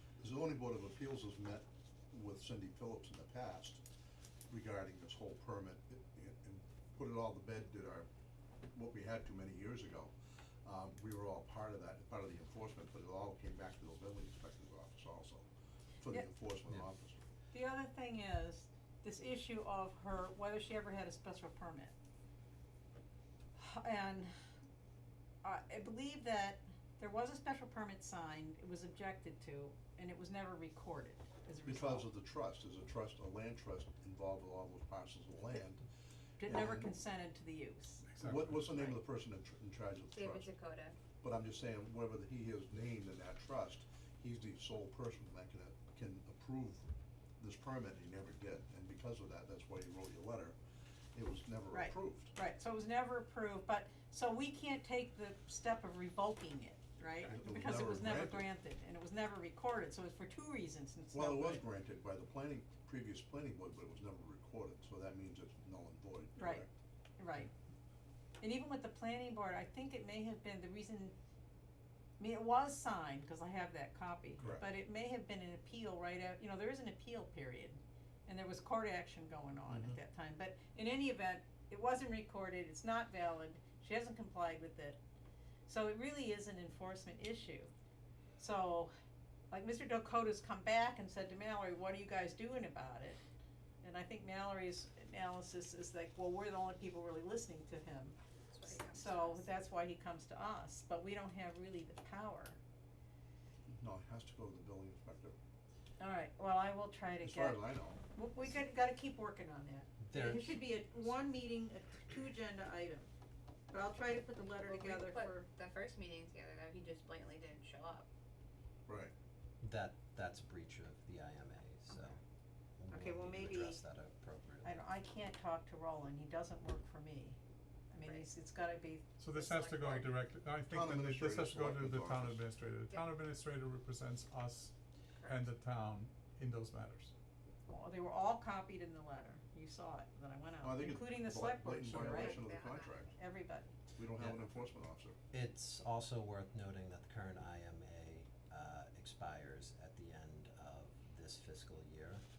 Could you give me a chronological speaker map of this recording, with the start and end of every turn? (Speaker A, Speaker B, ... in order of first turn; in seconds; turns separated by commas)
Speaker A: 0.2-3.8, Speaker A: 4.5-8.1, Speaker A: 8.7-10.1, Speaker A: 10.6-15.5, Speaker A: 16.0-17.2, Speaker B: 17.5-21.9, Speaker B: 23.6-24.3, Speaker B: 25.4-32.1, Speaker A: 31.6-35.9, Speaker B: 36.4-38.0, Speaker A: 36.4-36.9, Speaker C: 38.1-38.6, Speaker A: 38.2-40.5, Speaker D: 40.1-41.0, Speaker A: 41.2-46.8, Speaker A: 47.4-50.6, Speaker A: 51.1-52.3, Speaker B: 51.7-61.6, Speaker A: 57.2-58.5, Speaker A: 61.1-66.7, Speaker B: 66.4-66.6, Speaker B: 67.2-67.5, Speaker B: 68.4-71.1, Speaker B: 72.2-85.0, Speaker A: 74.4-74.7, Speaker A: 79.7-80.0, Speaker B: 85.7-87.7, Speaker B: 88.4-88.9, Speaker B: 89.5-93.2, Speaker B: 93.8-98.2, Speaker D: 98.5-99.5, Speaker B: 98.7-102.6, Speaker A: 103.7-105.3, Speaker B: 106.0-113.1, Speaker A: 107.2-108.0, Speaker E: 110.0-110.6, Speaker B: 113.7-115.3, Speaker D: 114.6-118.1, Speaker A: 118.9-119.1, Speaker E: 119.6-122.2, Speaker E: 122.8-124.8, Speaker B: 122.9-123.8, Speaker B: 124.6-127.4, Speaker B: 127.9-129.0, Speaker C: 129.2-137.1, Speaker D: 129.3-130.1, Speaker A: 130.7-132.4, Speaker B: 137.7-142.4, Speaker A: 140.6-143.1, Speaker D: 142.0-143.1, Speaker B: 143.2-143.7, Speaker A: 143.9-145.2, Speaker E: 144.2-144.4, Speaker E: 145.3-152.2